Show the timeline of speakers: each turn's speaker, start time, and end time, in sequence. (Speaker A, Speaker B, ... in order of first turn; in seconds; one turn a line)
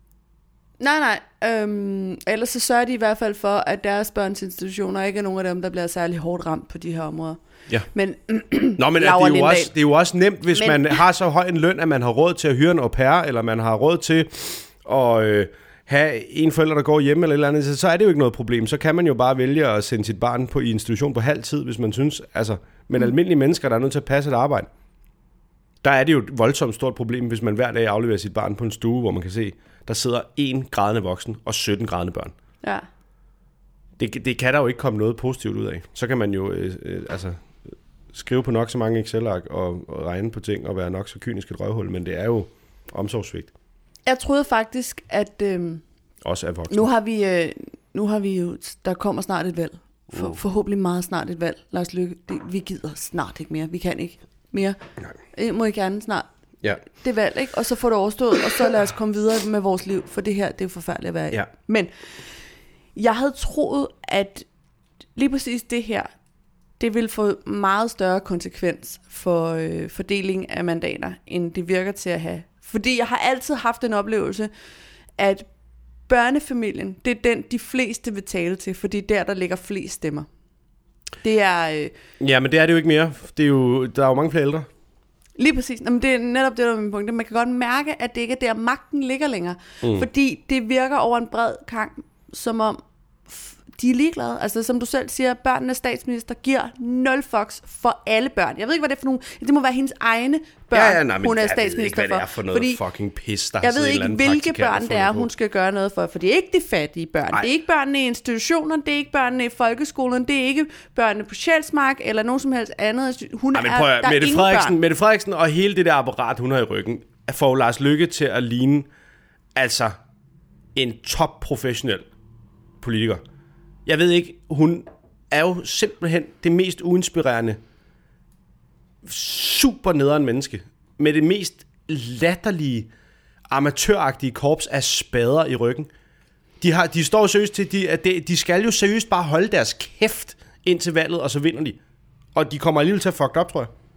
Speaker A: 0.8-7.4
Speaker A: 7.9-9.7
Speaker B: 8.8-24.7
Speaker A: 10.5-11.0
Speaker B: 25.8-32.3
Speaker B: 34.0-37.4
Speaker B: 38.1-43.5
Speaker A: 44.0-45.8
Speaker B: 46.2-46.9
Speaker A: 46.7-54.8
Speaker B: 50.1-50.4
Speaker A: 55.3-56.3
Speaker A: 56.8-61.9
Speaker A: 63.0-64.5
Speaker A: 65.2-66.1
Speaker A: 66.8-74.5
Speaker A: 75.2-75.5
Speaker A: 76.1-80.3
Speaker A: 81.2-81.9
Speaker B: 82.2-84.7
Speaker A: 85.4-102.8
Speaker B: 89.8-90.1
Speaker B: 100.7-105.3
Speaker A: 103.6-114.8
Speaker B: 113.5-118.9
Speaker B: 119.5-119.9
Speaker B: 120.7-122.1
Speaker B: 122.8-123.2
Speaker B: 123.8-127.6
Speaker B: 129.0-132.9
Speaker B: 133.5-135.9
Speaker B: 136.6-141.8
Speaker B: 142.3-143.7